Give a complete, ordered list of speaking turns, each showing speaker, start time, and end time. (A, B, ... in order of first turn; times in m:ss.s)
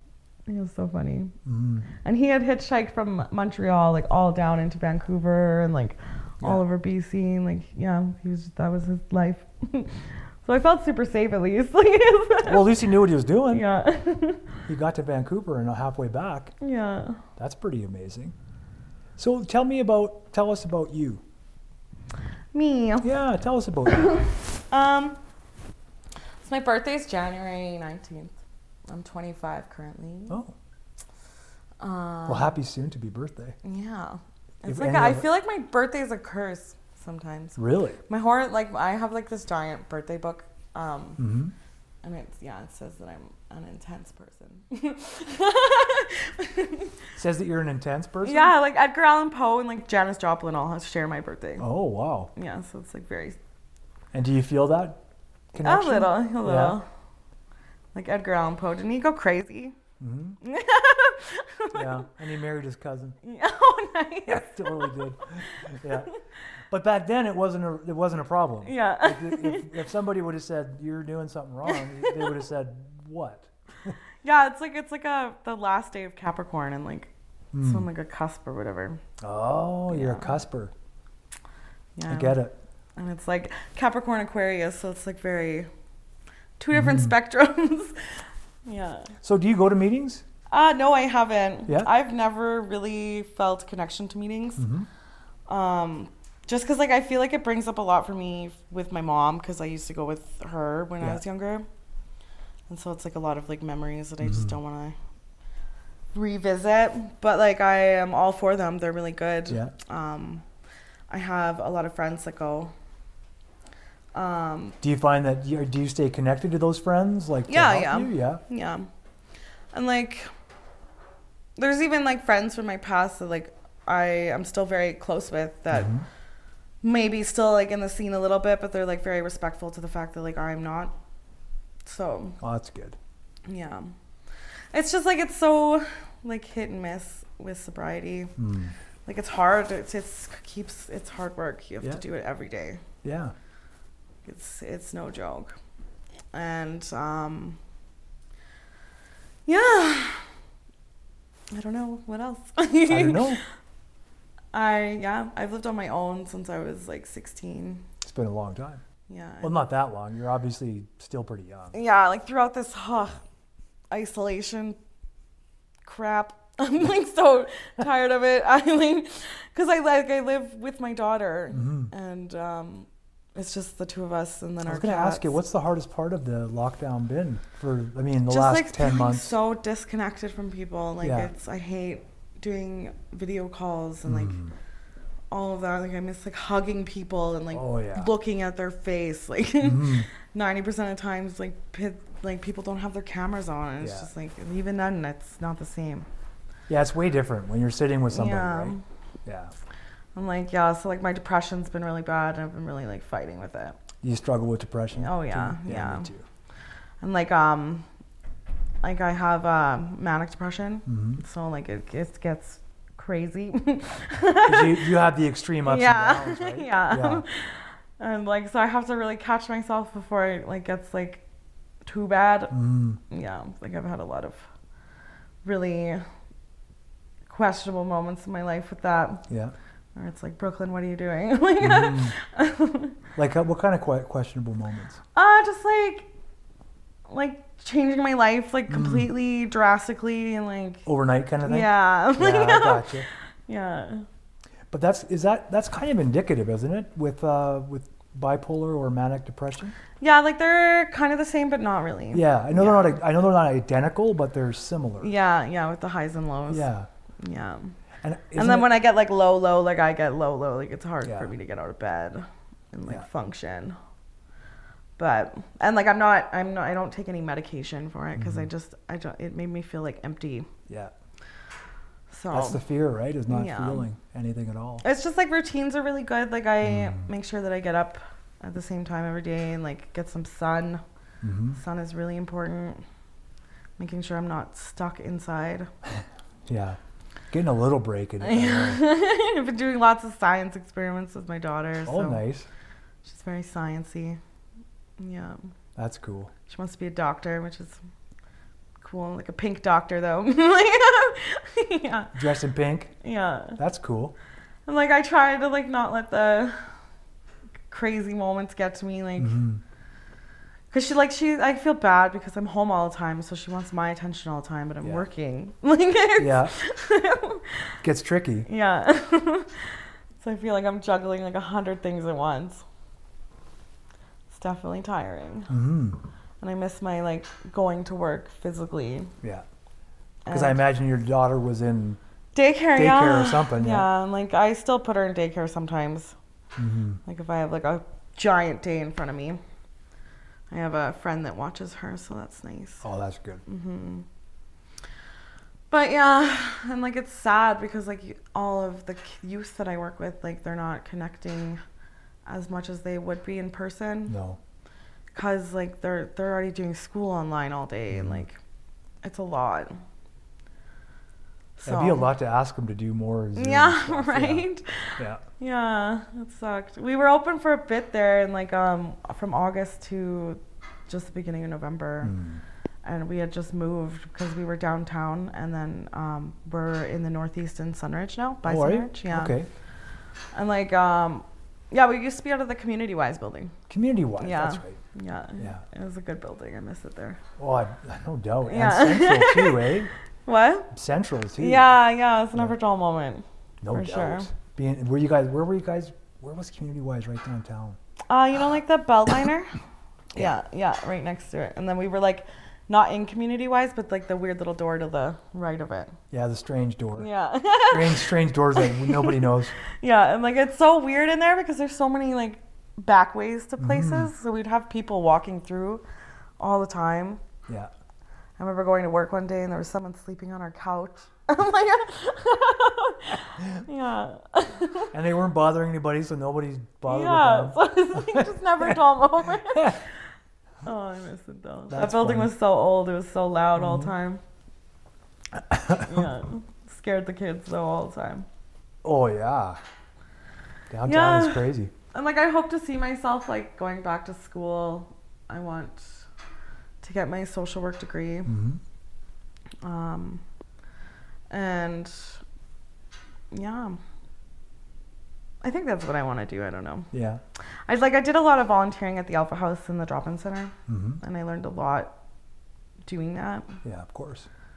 0:00.5-0:01.4 A
0:01.4-0:01.9 B
0:02.0-0:12.8 A
0:12.5-0:13.6 B
0:13.5-0:14.6 A
0:14.7-0:16.5 B
0:16.6-0:17.2 A
0:17.4-0:18.4 B
0:19.2-0:21.2 B
0:22.5-0:23.1 A
0:23.0-0:24.2 B
0:23.9-0:25.2 A
0:26.4-0:28.4 A
0:28.9-0:30.4 A
0:31.8-0:32.6 A
0:32.3-0:33.6 B
0:33.6-0:41.3 A
0:34.7-0:35.3 B
0:37.6-0:38.0 B
0:41.2-0:41.5 B
0:42.0-0:47.0 A
0:47.2-0:48.5 B
0:48.2-0:51.7 A
0:51.6-0:52.3 B
0:52.4-0:53.4 A
0:54.1-0:55.0 B
0:55.5-0:56.8 B
0:55.6-0:56.9 A
0:57.9-0:59.8 A
1:00.0-1:00.4 B
1:00.4-1:02.1 A
1:01.7-1:03.2 B
1:03.2-1:06.1 A
1:04.3-1:06.1 B
1:06.7-1:14.0 B
1:08.6-1:09.8 A
1:11.7-1:12.4 A
1:14.2-1:19.0 A
1:17.5-1:17.9 B
1:19.2-1:20.7 B
1:19.9-1:20.4 A
1:22.0-1:22.4 A
1:22.1-1:22.6 B
1:23.0-1:25.7 A
1:26.6-1:29.1 A
1:26.7-1:27.1 B
1:29.2-1:30.2 B
1:30.5-1:34.7 A
1:34.6-1:34.9 B
1:35.5-1:41.7 A
1:42.7-1:45.0 A
1:44.2-1:44.5 B
1:46.1-1:50.4 A
1:49.5-1:49.7 B
1:51.1-1:52.7 A
1:54.1-1:54.8 A
1:54.8-1:58.4 B
1:57.5-1:58.9 A
1:59.7-2:00.3 A
2:01.6-2:06.0 A
2:05.7-2:06.0 B
2:06.8-2:11.0 A
2:11.8-2:12.4 A
2:12.4-2:13.0 B
2:13.5-2:13.9 A
2:14.7-2:18.4 A
2:18.4-2:18.7 B
2:19.1-2:22.8 A
2:23.0-2:23.3 B
2:24.2-2:25.6 A
2:26.3-2:27.6 A
2:29.5-2:30.2 A
2:31.5-2:33.4 A
2:32.9-2:33.4 B
2:34.5-2:37.8 A
2:38.0-2:38.8 B
2:39.1-2:39.6 A
2:39.4-2:41.8 B
2:41.7-2:43.2 A
2:43.9-2:44.8 A
2:45.8-2:55.4 A
2:51.5-2:51.9 B
2:54.7-2:59.4 B
2:58.3-3:04.4 A
3:01.0-3:01.3 B
3:04.1-3:04.5 B
3:05.3-3:16.1 A
3:07.5-3:08.1 B
3:09.6-3:10.1 B
3:13.8-3:14.1 B
3:16.7-3:19.5 B
3:18.1-3:18.8 A
3:20.2-3:23.8 A
3:24.0-3:26.2 B
3:25.0-3:26.1 A
3:27.0-3:27.8 A
3:28.8-3:34.9 A
3:30.9-3:31.2 B
3:34.5-3:37.2 B
3:35.6-3:41.2 A
3:41.8-3:44.5 A
3:42.5-3:43.0 B
3:45.4-3:46.0 A
3:47.3-3:49.3 A
3:49.3-3:49.5 B
3:50.0-3:53.0 A
3:51.6-3:52.1 B
3:53.2-3:55.0 B
3:55.2-3:56.1 A
3:57.1-4:00.9 A
3:58.7-3:59.1 B
4:00.8-4:03.1 B
4:01.4-4:04.1 A
4:04.7-4:09.8 B
4:10.0-4:13.0 A
4:12.1-4:15.1 B
4:15.0-4:16.7 A
4:16.5-4:16.9 B
4:17.2-4:17.8 A
4:18.0-4:18.8 B
4:18.4-4:23.8 A
4:21.0-4:21.3 B
4:25.0-4:30.5 A
4:28.2-4:28.5 B
4:32.1-4:32.6 A
4:32.3-4:34.8 B
4:33.3-4:33.8 A
4:34.8-4:40.8 A
4:36.6-4:37.0 B
4:41.2-4:41.6 B
4:41.5-4:42.8 A
4:43.8-4:45.7 A
4:46.5-4:46.8 B
4:47.3-4:48.8 B
4:48.2-4:52.2 A
4:51.9-4:52.5 B
4:53.0-4:54.2 A
4:55.0-4:55.5 A
4:55.8-4:56.3 B
4:56.5-4:57.8 A
4:58.8-5:02.2 A
5:02.1-5:03.0 B
5:03.0-5:03.6 A
5:03.6-5:04.2 B
5:04.7-5:06.6 A
5:07.7-5:09.4 A
5:09.2-5:09.6 B
5:10.7-5:17.7 A
5:16.2-5:16.5 B
5:17.8-5:18.5 B
5:18.5-5:22.6 A
5:24.3-5:25.5 A
5:25.5-5:26.0 B
5:26.4-5:29.1 A
5:30.3-5:30.6 A
5:30.3-5:32.0 B
5:32.4-5:36.2 A
5:32.8-5:33.9 B
5:36.6-5:37.0 B
5:37.0-5:39.4 A
5:40.5-5:42.8 A
5:42.8-5:43.4 B
5:43.5-5:44.1 A
5:45.7-5:51.6 A
5:52.3-5:54.2 A
5:54.1-5:54.4 B
5:55.1-5:58.4 A
5:57.9-5:58.2 B
5:59.0-5:59.8 A
6:01.6-6:02.1 A
6:01.6-6:04.5 B
6:03.4-6:12.2 A
6:12.0-6:12.4 B
6:12.8-6:19.4 A
6:18.4-6:19.5 B
6:20.3-6:23.6 A
6:23.7-6:24.8 B
6:24.2-6:27.2 A
6:27.4-6:29.9 B
6:28.4-6:30.7 A
6:30.7-6:31.7 B
6:31.4-6:34.3 A
6:33.6-6:37.8 B
6:38.1-6:39.5 A
6:40.2-6:46.0 A
6:46.1-6:47.1 B
6:47.0-6:55.8 A
6:47.6-6:49.6 B
6:53.6-6:54.1 B
6:56.4-6:57.2 A
6:58.4-7:04.9 A
7:04.9-7:08.8 B
7:06.9-7:09.9 A
7:09.5-7:09.8 B
7:10.6-7:14.2 A
7:11.7-7:12.3 B
7:13.6-7:13.9 B
7:15.4-7:16.1 B
7:15.8-7:18.3 A
7:18.8-7:19.6 B
7:20.7-7:21.7 B
7:20.9-7:26.0 A
7:26.8-7:28.3 A
7:28.3-7:28.6 B
7:29.6-7:30.2 A
7:31.3-7:32.2 A
7:33.3-7:33.8 A
7:35.4-7:36.9 A
7:36.9-7:37.2 B
7:37.7-7:42.0 A
7:40.7-7:41.0 B
7:42.8-7:43.6 A
7:43.6-7:44.3 B